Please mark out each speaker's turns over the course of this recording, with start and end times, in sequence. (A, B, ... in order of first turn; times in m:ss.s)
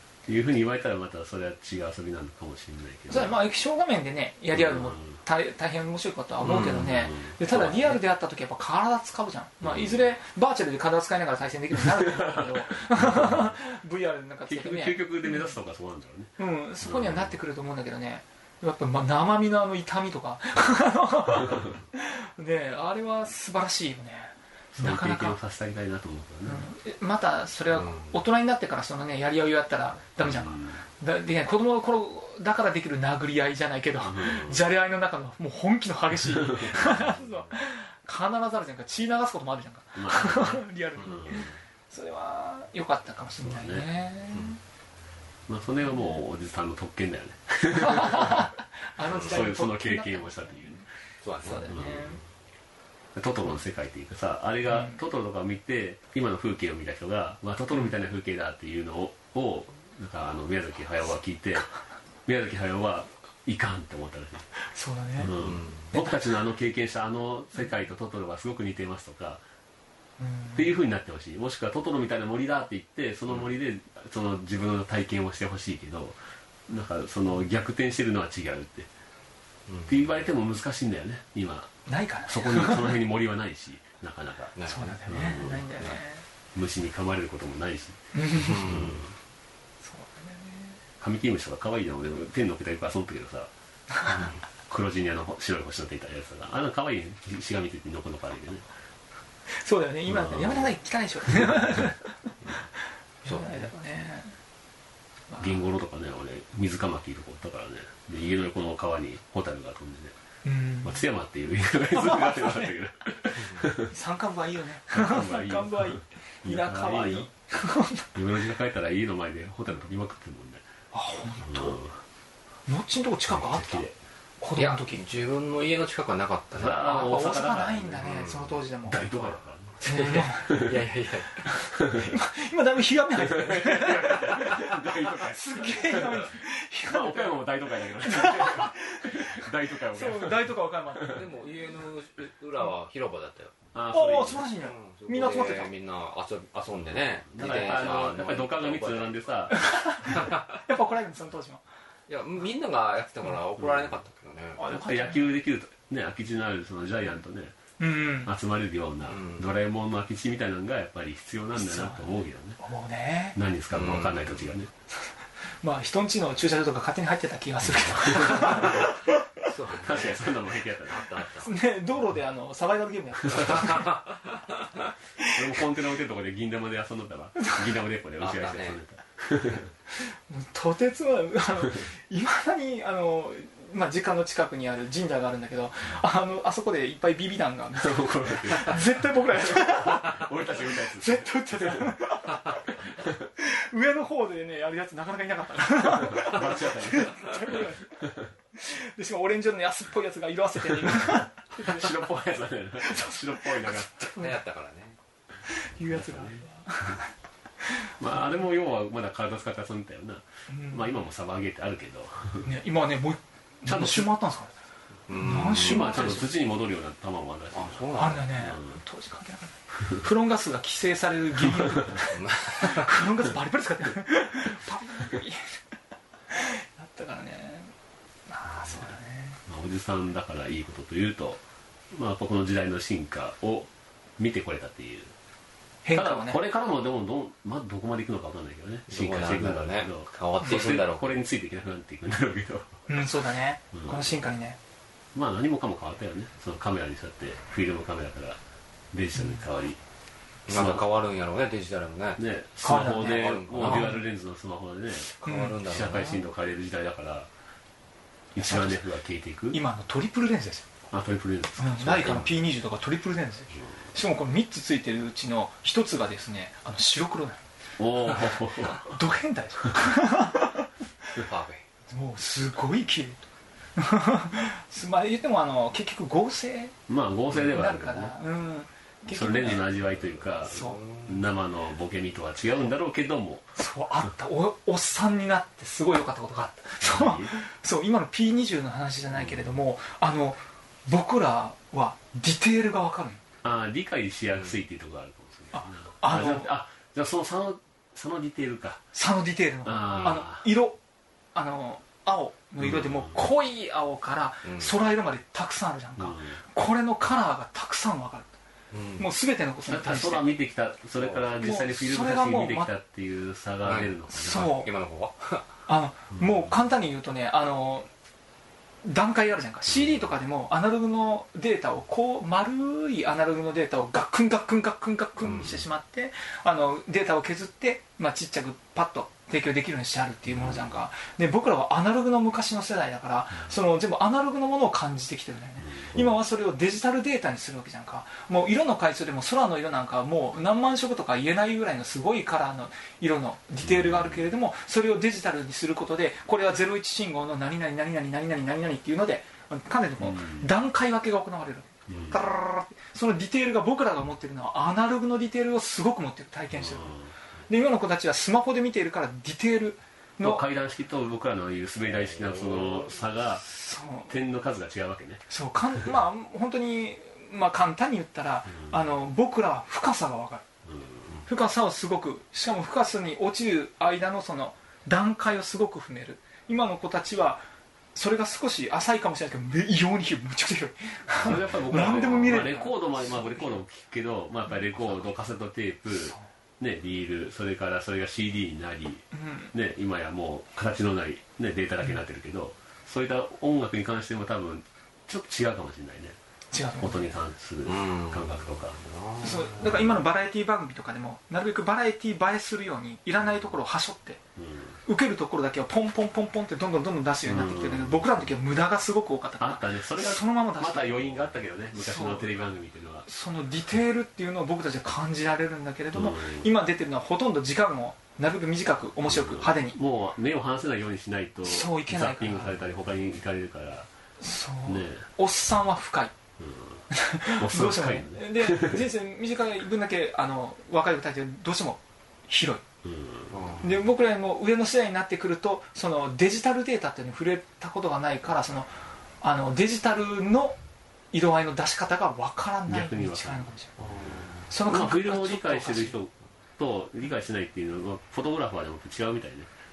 0:00.3-0:03.4 A
0:03.1-0:15.6 B
0:04.5-0:05.2 A
0:06.4-0:07.0 C
0:06.5-0:08.0 A
0:09.6-0:10.1 A
0:12.0-0:13.5 A
0:14.5-0:17.4 A
0:16.4-0:25.4 B
0:24.7-0:26.7 A
0:26.4-0:44.6 B
0:27.8-0:28.1 C
0:30.2-0:30.8 A
0:34.0-0:34.7 A
0:36.3-0:37.1 A
0:40.0-0:41.5 A
0:43.4-0:43.9 A
0:45.5-0:48.5 A
0:45.9-0:46.2 B
0:47.7-0:50.9 B
0:49.1-0:50.8 A
0:49.1-0:49.4 C
0:51.2-0:51.9 C
0:51.4-0:52.2 B
0:51.7-0:52.2 A
0:53.2-1:01.7 A
0:54.7-0:55.0 B
1:02.3-1:04.5 A
1:04.6-1:05.4 B
1:05.2-1:09.4 A
1:05.3-1:05.9 C
1:05.9-1:06.3 B
1:10.2-1:10.7 B
1:10.6-1:18.9 A
1:19.7-1:20.0 C
1:19.9-1:21.7 A
1:21.9-1:23.0 B
1:22.3-1:25.8 A
1:24.6-1:25.9 C
1:24.7-1:26.2 B
1:26.5-1:28.0 A
1:28.1-1:28.7 B
1:28.4-1:29.0 C
1:28.6-1:29.1 A
1:29.8-1:30.8 B
1:31.0-1:33.5 A
1:34.1-1:34.4 C
1:34.7-1:38.6 A
1:39.5-1:42.3 B
1:40.1-1:40.7 A
1:41.3-1:41.9 A
1:43.2-1:44.4 B
1:45.4-1:50.2 A
1:50.4-1:51.0 B
1:50.8-1:53.9 A
1:51.9-1:52.8 B
1:53.4-1:53.7 C
1:53.9-1:58.1 B
1:54.9-1:57.3 A
1:58.2-2:00.6 A
2:00.9-2:01.8 B
2:01.4-2:02.0 A
2:02.7-2:03.9 B
2:03.3-2:04.0 A
2:04.4-2:05.0 B
2:04.6-2:07.0 C
2:06.6-2:08.3 A
2:06.7-2:09.1 B
2:08.0-2:08.6 C
2:08.9-2:10.7 A
2:09.8-2:10.7 B
2:09.8-2:11.5 C
2:11.5-2:21.3 B
2:11.8-2:12.1 A
2:13.2-2:21.2 A
2:21.1-2:23.6 C
2:23.7-2:24.5 A
2:23.9-2:25.7 B
2:24.6-2:29.3 C
2:27.3-2:29.6 A
2:29.5-2:31.6 B
2:30.1-2:30.4 C
2:32.1-2:34.6 C
2:34.6-2:35.3 B
2:34.6-2:37.6 A
2:37.8-2:38.3 B
2:38.2-2:42.6 A
2:39.1-2:39.4 C
2:41.6-2:43.4 B
2:43.4-2:44.7 A
2:43.7-2:44.5 C
2:44.9-2:49.2 B
2:47.6-2:48.8 A
2:48.4-2:48.9 C
2:49.5-2:51.5 C
2:49.7-2:51.2 A
2:51.4-2:54.0 B
2:53.4-2:54.4 C
2:55.3-2:59.7 A
2:58.2-2:58.8 C
2:59.9-3:12.7 B
3:07.8-3:12.0 A
3:12.8-3:13.2 A
3:13.4-3:21.9 B
3:15.8-3:18.3 A
3:21.6-3:24.1 A
3:22.8-3:24.4 B
3:24.2-3:25.0 C
3:25.5-3:28.1 B
3:25.8-3:27.0 A
3:28.0-3:32.5 A
3:30.5-3:31.0 B
3:32.4-3:34.6 B
3:33.7-3:34.1 A
3:35.1-3:36.1 C
3:35.1-3:36.3 B
3:35.3-3:38.8 A
3:37.5-3:38.3 C
3:38.0-3:45.6 B
3:42.0-3:43.0 C
3:46.3-3:47.7 B
3:48.3-3:49.4 B
3:49.5-3:55.1 A
3:55.8-3:56.4 B
3:55.9-4:02.9 A
3:58.9-4:01.1 C
4:02.9-4:04.6 B
4:03.7-4:04.1 A
4:05.1-4:08.4 A
4:08.9-4:09.8 A
4:09.2-4:09.4 B
4:10.5-4:12.2 C
4:10.5-4:10.8 A
4:12.2-4:17.3 A
4:12.6-4:14.0 B
4:13.0-4:14.0 C
4:15.2-4:16.2 C
4:15.2-4:15.6 B
4:18.3-4:19.6 A
4:18.4-4:18.8 B
4:19.5-4:20.7 B
4:20.9-4:22.4 A
4:21.6-4:27.4 B
4:27.8-4:29.0 A
4:28.7-4:30.7 B
4:31.2-4:31.6 C
4:31.9-4:33.2 B
4:33.8-4:36.8 B
4:36.9-4:38.2 A
4:37.4-4:39.7 B
4:39.1-4:43.5 A
4:40.4-4:40.8 B
4:40.5-4:41.2 C
4:43.6-4:53.2 B
4:46.8-4:47.4 A
4:49.2-4:49.5 A
4:53.4-4:58.8 A
4:55.5-4:56.5 B
4:58.9-5:00.8 B
4:59.6-5:00.5 A
4:59.9-5:00.2 C
5:01.3-5:08.3 B
5:02.6-5:03.2 A
5:04.4-5:04.7 C
5:06.0-5:06.4 A
5:08.7-5:09.1 C
5:09.0-5:10.3 B
5:09.7-5:14.5 A
5:11.0-5:11.3 C
5:11.4-5:12.7 B
5:13.6-5:15.5 C
5:14.1-5:14.7 B
5:15.7-5:17.9 B
5:16.2-5:16.5 A
5:18.8-5:57.0 B
5:25.2-5:25.6 C
5:30.3-5:30.7 A
5:35.6-5:36.0 A
5:43.6-5:44.3 A
5:50.0-5:50.5 A
5:51.9-5:52.2 A
5:56.5-5:57.1 A
5:57.5-6:00.4 B
6:00.2-6:03.4 A
6:01.9-6:03.0 C
6:03.4-6:04.1 B
6:04.1-6:05.2 A
6:05.3-6:10.5 B
6:10.7-6:11.2 A
6:11.3-6:17.4 B
6:18.0-6:23.6 B
6:21.2-6:36.2 A
6:25.9-6:26.3 B
6:29.1-6:29.5 B
6:36.5-6:37.2 B
6:36.8-6:38.8 A
6:37.6-6:39.9 C
6:39.2-6:44.2 B
6:44.4-6:44.8 A
6:44.8-6:51.1 B
6:47.2-6:48.1 A
6:49.4-6:53.1 A
6:51.7-6:52.4 B
6:53.0-6:59.8 B
6:55.9-6:56.5 A
6:59.1-7:03.9 A
7:01.4-7:02.6 B
7:04.2-7:06.1 B
7:04.7-7:05.1 A
7:06.4-7:08.9 A
7:06.9-7:12.6 B
7:12.8-7:13.6 A
7:13.3-7:13.7 C
7:13.6-7:20.6 B
7:21.1-7:23.7 B
7:22.7-7:29.5 A
7:23.8-7:24.5 C
7:24.5-7:26.0 B